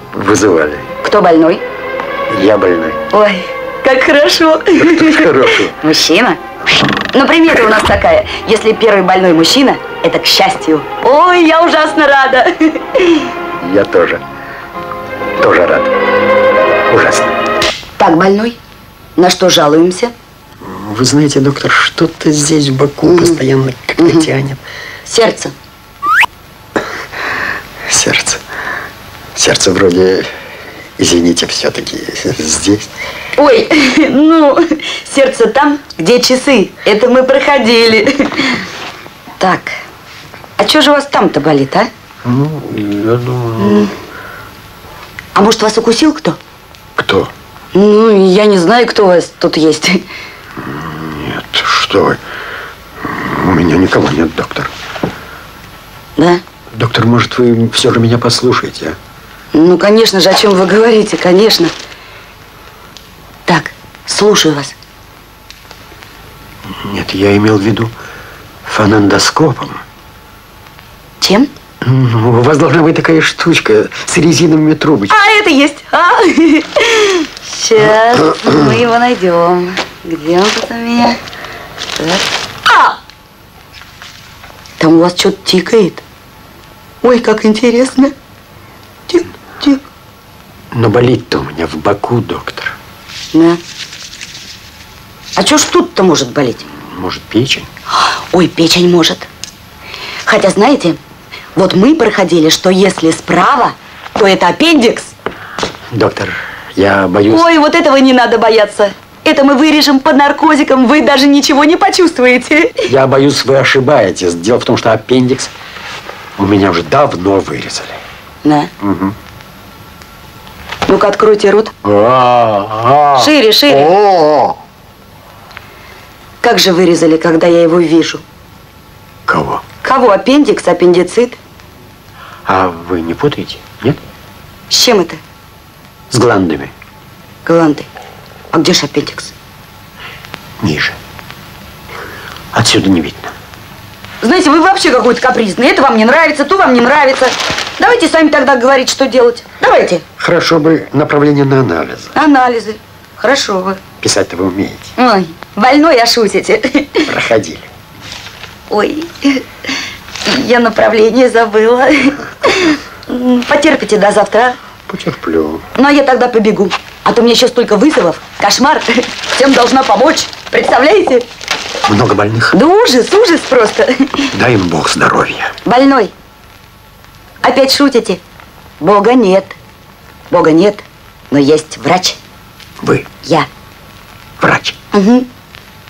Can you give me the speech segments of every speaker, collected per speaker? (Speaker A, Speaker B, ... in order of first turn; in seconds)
Speaker A: 0.1-0.9, 2.3-3.0, 4.8-5.8, 13.6-14.2, 15.4-15.9, 16.9-17.3, 20.6-24.6, 27.8-28.4, 29.3-30.3, 31.0-32.9, 42.2-43.9, 47.0-47.3, 50.6-52.2, 53.0-54.7, 56.7-59.0, 66.7-67.9, 68.7-69.8, 71.8-75.2, 90.7-92.8, 96.9-97.7, 105.9-107.5, 112.8-115.5, 116.4-118.0, 118.8-119.1, 121.8-124.6, 129.3-129.6, 132.4-134.0, 136.1-136.7, 140.6-141.0, 142.5-143.3, 150.2-152.1, 154.0-154.9, 157.0-157.7, 164.9-165.6, 171.8-172.6, 174.3-175.5, 182.8-183.1, 184.4-184.8
Speaker B: 1.0-1.6, 3.1-6.4, 7.1-13.3, 18.0-18.6, 19.1-20.1, 23.0-23.4, 24.0-24.3, 25.1-25.5, 33.4-38.6, 39.4-39.7, 40.6-41.9, 43.6-43.9, 45.3-46.4, 47.7-50.0, 56.1-56.4, 59.5-61.7, 63.5-64.7, 71.2-71.5, 75.1-81.2, 82.0-83.0, 84.8-86.0, 87.0-88.1, 89.1-89.8, 93.3-93.6, 95.3-96.7, 97.9-99.3, 100.2-101.0, 101.5-105.1, 107.3-112.9, 118.4-118.7, 120.9-121.7, 123.1-123.9, 126.4-128.2, 129.8-131.4, 134.7-135.2, 137.4-137.9, 138.5-139.3, 144.2-150.0, 152.1-153.8, 155.0-157.1, 158.7-159.4, 160.2-164.6, 165.8-171.2, 172.5-174.3, 175.6-176.1, 177.4-178.2, 178.8-179.6, 180.3-182.2, 183.2-183.5, 184.9-185.3